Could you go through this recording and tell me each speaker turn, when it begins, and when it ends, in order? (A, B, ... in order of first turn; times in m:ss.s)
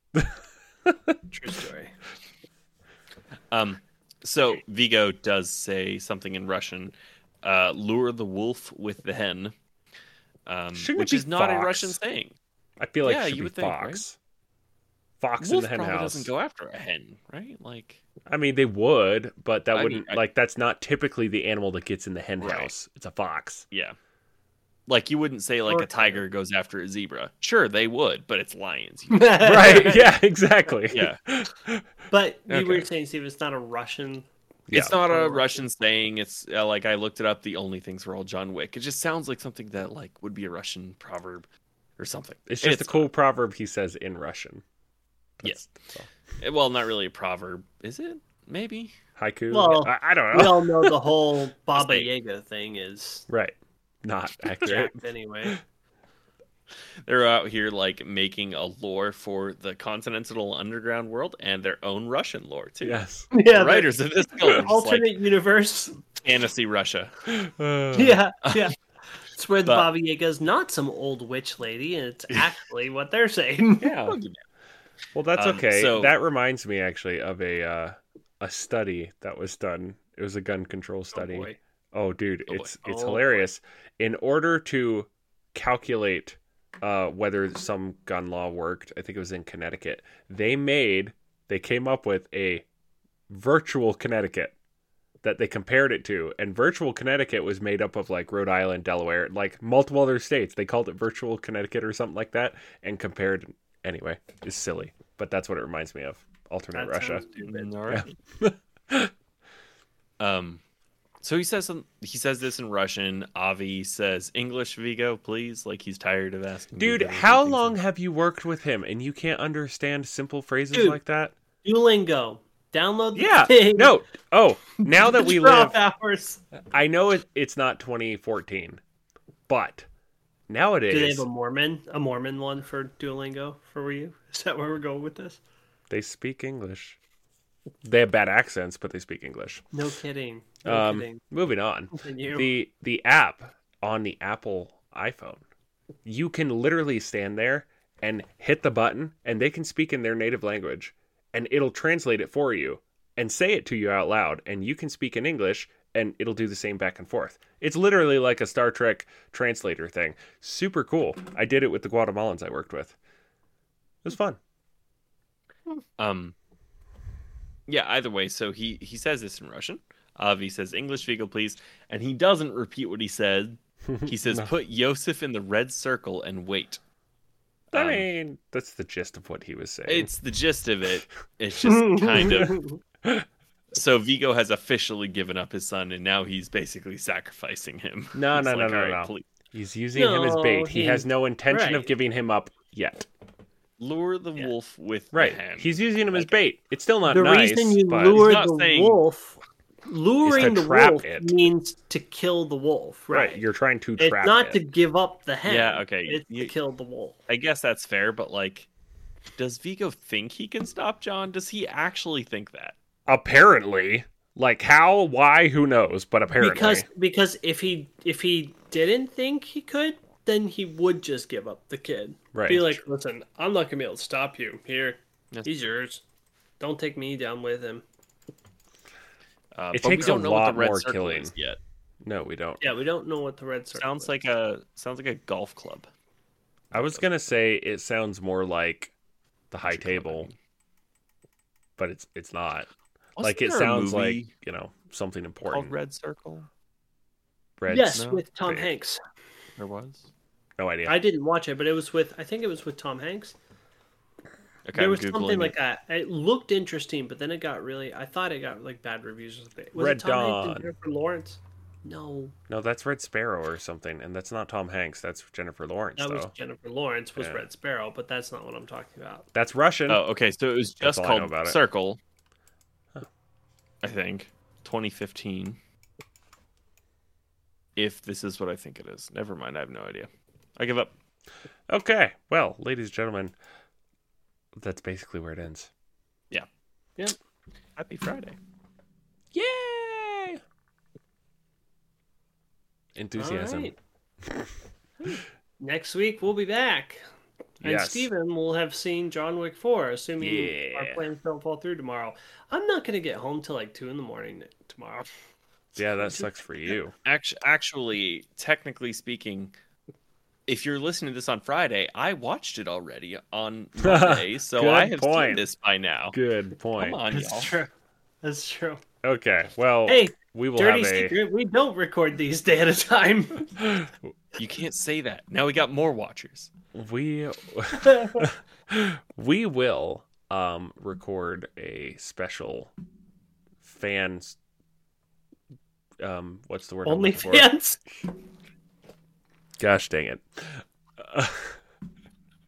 0:01.3-0:01.9 A
0:03.5-0:09.5 B
0:10.4-0:12.4 B
0:10.7-0:12.0 C
0:12.8-0:14.2 C
0:13.0-0:14.0 B
0:15.2-0:16.3 C
0:15.4-0:18.0 B
0:18.3-0:23.6 C
0:19.7-0:20.2 B
0:22.4-0:22.7 B
0:23.7-0:24.0 B
0:24.9-0:30.0 B
0:25.7-0:26.2 A
0:29.1-0:30.2 A
0:29.4-0:31.8 C
0:30.9-0:31.2 B
0:32.1-0:34.3 A
0:32.5-0:32.9 B
0:34.7-0:34.9 C
0:34.7-0:41.4 B
0:35.1-0:35.6 A
0:42.0-0:43.1 B
0:42.5-0:44.6 C
0:45.4-0:46.1 C
0:46.4-0:48.9 B
0:49.2-0:51.1 C
0:49.5-0:53.2 A
0:51.7-0:52.1 B
0:53.3-0:55.5 C
0:54.6-0:55.6 A
0:57.0-1:05.2 B
1:02.8-1:03.3 C
1:03.3-1:06.0 A
1:06.2-1:07.2 B
1:07.3-1:08.2 C
1:07.9-1:08.7 A
1:09.3-1:14.2 A
1:09.6-1:09.9 B
1:13.8-1:14.4 B
1:15.1-1:32.6 C
1:15.3-1:16.2 B
1:21.1-1:21.6 A
1:22.5-1:22.7 B
1:22.8-1:23.5 A
1:33.3-1:34.5 C
1:35.2-1:47.4 C
1:46.7-1:47.7 A
1:47.5-1:48.1 B
1:47.9-1:49.1 C
1:50.2-1:50.6 B
1:51.2-1:57.8 B
1:56.8-2:01.3 C
2:00.7-2:01.0 A
2:01.6-2:04.0 A
2:03.1-2:05.8 C
2:04.8-2:06.4 A
2:06.7-2:08.8 C
2:09.5-2:09.8 C
2:10.5-2:11.2 C
2:10.9-2:15.4 A
2:15.9-2:17.0 C
2:17.8-2:19.8 C
2:19.7-2:21.2 A
2:20.6-2:25.4 C
2:21.9-2:22.5 A
2:26.0-2:43.0 C
2:44.0-2:44.4 C
2:46.0-2:46.3 B
2:47.7-2:56.8 B
2:53.9-2:54.5 C
2:57.7-2:58.1 B
2:57.7-3:00.1 C
2:59.8-3:02.6 B
3:01.7-3:02.8 A
3:03.7-3:09.3 B
3:08.1-3:13.1 C
3:09.9-3:11.9 A
3:13.8-3:16.3 B
3:15.1-3:18.4 C
3:17.1-3:23.4 A
3:18.0-3:19.0 B
3:20.2-3:21.3 C
3:23.1-3:24.6 C
3:24.0-3:27.2 A
3:25.4-3:26.5 B
3:27.3-3:28.7 B
3:29.4-3:32.8 B
3:33.1-3:36.8 C
3:36.4-3:46.0 A
3:42.3-3:42.8 C
3:45.3-3:45.7 B
3:46.6-3:47.8 A
3:49.5-3:51.6 B
3:49.7-3:51.3 C
3:52.0-3:52.7 C
3:52.6-3:54.1 A
3:53.7-3:55.9 B
3:56.7-3:58.9 C
3:59.5-4:00.3 C
3:59.7-4:00.3 B
4:01.8-4:02.7 C
4:03.2-4:04.3 B
4:03.2-4:05.8 C
4:05.4-4:06.5 B
4:07.6-4:08.7 C
4:07.7-4:09.0 A
4:07.9-4:08.2 B
4:09.6-4:10.1 B
4:10.6-4:11.0 C
4:10.8-4:13.4 A
4:14.7-4:15.5 B
4:14.7-4:22.3 A
4:19.7-4:20.7 C
4:22.5-4:26.3 C
4:26.0-4:29.3 A
4:27.2-4:27.4 C
4:29.3-4:30.0 C
4:29.9-4:32.0 B
4:30.8-4:31.6 C
4:33.8-4:35.6 B
4:37.8-4:40.9 B
4:41.7-4:43.3 C
4:44.6-4:45.7 C
4:47.8-4:48.4 B
4:49.3-4:50.4 C
4:53.0-4:53.7 C
4:53.2-4:53.8 A
4:55.0-4:57.0 A
4:57.6-5:05.1 A
4:57.6-4:58.1 C
5:00.2-5:01.1 C
5:05.8-5:06.9 C
5:05.9-5:06.7 A
5:07.0-5:09.5 B
5:10.5-5:16.2 B
5:13.8-5:15.4 C
5:16.1-5:17.0 C
5:16.8-5:17.5 B
5:17.1-5:17.7 A
5:18.2-5:18.8 A
5:19.0-5:21.2 C
5:19.9-5:23.6 A
5:24.4-5:26.5 B
5:26.7-5:32.7 C
5:27.8-5:28.2 A
5:33.6-5:34.4 C
5:36.0-5:37.5 C
5:36.8-5:37.8 A
5:39.6-5:41.6 C